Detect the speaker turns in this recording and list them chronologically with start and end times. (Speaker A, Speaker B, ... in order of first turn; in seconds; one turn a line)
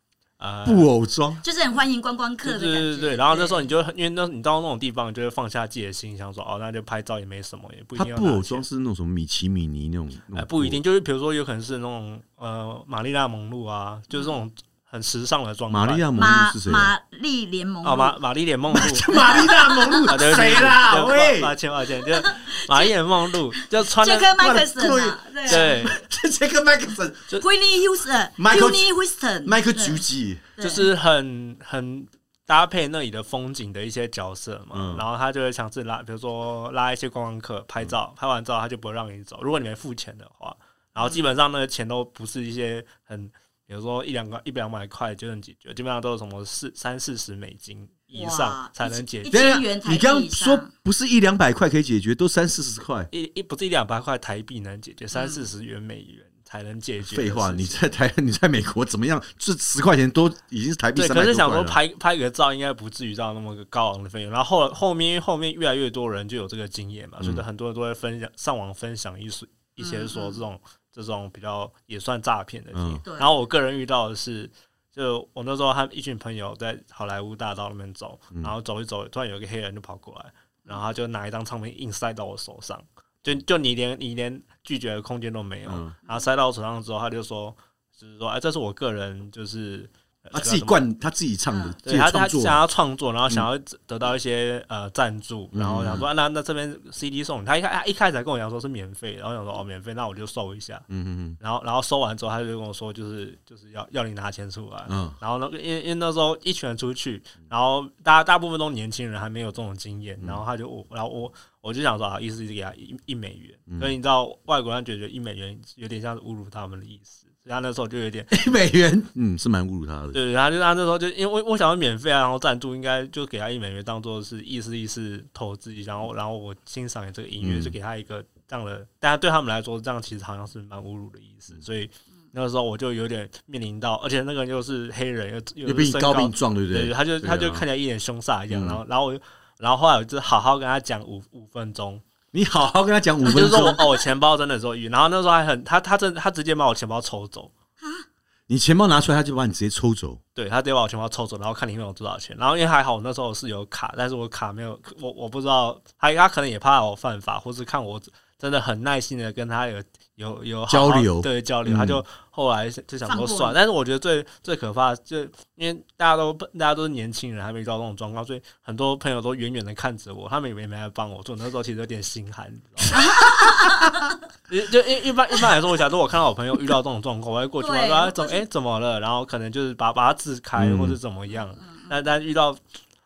Speaker A: 0.4-0.9
Speaker B: 0.6-1.4
Speaker C: 1.4-3.7
Speaker A: 2.4-8.7
Speaker B: 8.0-10.8
Speaker A: 10.3-16.1
Speaker B: 15.7-16.9
Speaker C: 16.1-18.1
Speaker A: 17.8-24.3
Speaker B: 18.7-21.5
Speaker C: 19.1-20.0
Speaker C: 22.1-22.9
Speaker C: 23.5-25.9
Speaker B: 24.4-27.3
Speaker A: 25.5-25.9
Speaker C: 27.4-30.0
Speaker B: 28.4-28.9
Speaker B: 29.4-30.5
Speaker C: 30.6-30.9
Speaker A: 30.6-49.5
Speaker B: 34.7-35.0
Speaker C: 48.1-50.7
Speaker B: 49.3-53.1
Speaker A: 53.1-57.8
Speaker C: 55.1-55.5
Speaker B: 57.0-61.8
Speaker A: 61.0-90.8
Speaker B: 67.2-67.5
Speaker C: 69.8-70.4
Speaker B: 72.7-73.0
Speaker C: 73.0-73.4
Speaker B: 85.7-85.9
Speaker B: 90.3-92.6
Speaker C: 91.5-91.8
Speaker A: 91.8-100.8
Speaker B: 95.5-96.1
Speaker B: 100.9-101.4
Speaker A: 101.4-118.4
Speaker B: 104.9-105.2
Speaker B: 118.3-120.2
Speaker A: 120.1-142.0
Speaker B: 127.4-127.7
Speaker B: 135.6-137.7
Speaker B: 138.5-138.8
Speaker B: 142.3-143.8
Speaker A: 143.2-147.5
Speaker B: 148.5-150.2
Speaker A: 150.3-182.6
Speaker B: 160.7-162.0
Speaker C: 163.1-163.6
Speaker C: 172.9-174.2
Speaker C: 177.6-178.4
Speaker B: 180.6-181.0
Speaker C: 181.6-181.9